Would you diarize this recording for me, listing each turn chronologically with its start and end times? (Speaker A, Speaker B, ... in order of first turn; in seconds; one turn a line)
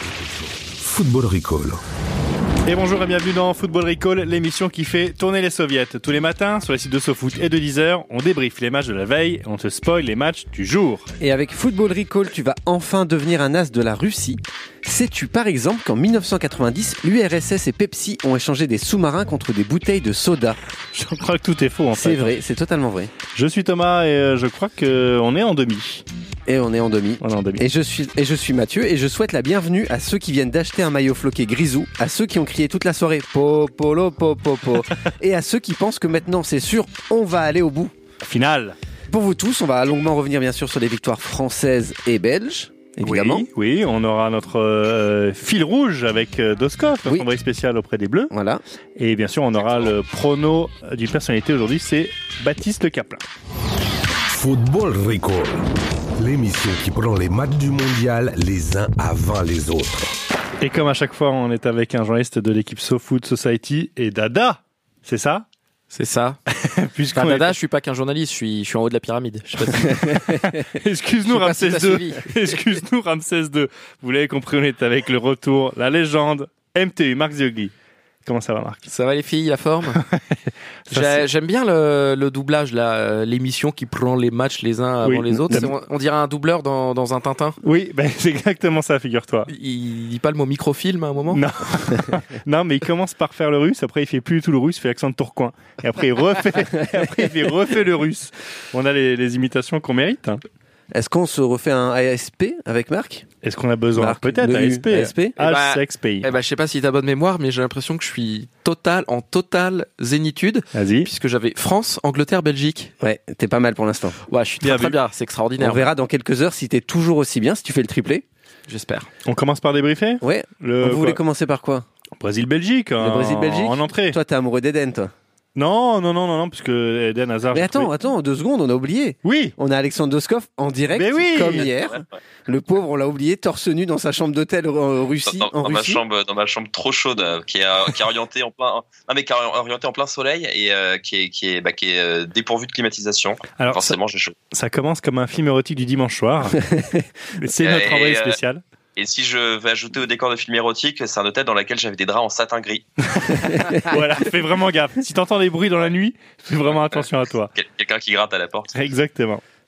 Speaker A: 0.6-1.8
Speaker B: 2.6-11.1
Speaker C: 11.2-20.6
Speaker B: 20.9-22.3
Speaker C: 21.9-23.1
Speaker B: 23.3-26.0
Speaker C: 26.5-37.9
Speaker B: 27.2-27.6
Speaker B: 38.2-38.8
Speaker C: 39.1-43.5
Speaker B: 43.0-48.3
Speaker C: 48.3-48.6
Speaker B: 49.0-53.2
Speaker D: 49.6-49.9
Speaker A: 54.3-60.1
Speaker B: 60.6-65.5
Speaker E: 65.9-66.4
Speaker B: 66.5-67.6
Speaker E: 67.2-70.2
Speaker B: 70.4-77.7
Speaker E: 71.2-72.3
Speaker B: 78.2-78.8
Speaker E: 78.9-80.0
Speaker B: 80.9-81.3
Speaker E: 80.9-87.6
Speaker B: 85.0-85.7
Speaker B: 87.6-89.5
Speaker E: 89.5-91.4
Speaker B: 91.3-100.4
Speaker C: 96.7-97.5
Speaker C: 100.9-103.3
Speaker B: 103.4-106.3
Speaker C: 103.9-105.4
Speaker E: 105.4-112.9
Speaker B: 110.7-111.1
Speaker C: 113.0-114.2
Speaker E: 114.3-115.8
Speaker B: 114.6-115.0
Speaker C: 115.6-118.2
Speaker E: 118.7-119.1
Speaker B: 119.2-121.2
Speaker C: 120.2-121.9
Speaker B: 122.2-124.2
Speaker C: 123.0-125.1
Speaker B: 125.5-127.9
Speaker C: 127.5-136.0
Speaker B: 129.2-129.5
Speaker B: 130.9-131.7
Speaker D: 135.2-144.3
Speaker B: 143.6-144.0
Speaker B: 144.5-146.8
Speaker C: 146.7-147.0
Speaker B: 147.3-148.6
Speaker D: 147.6-148.4
Speaker D: 149.0-152.9
Speaker B: 153.1-157.5
Speaker D: 157.6-158.8
Speaker B: 158.7-159.4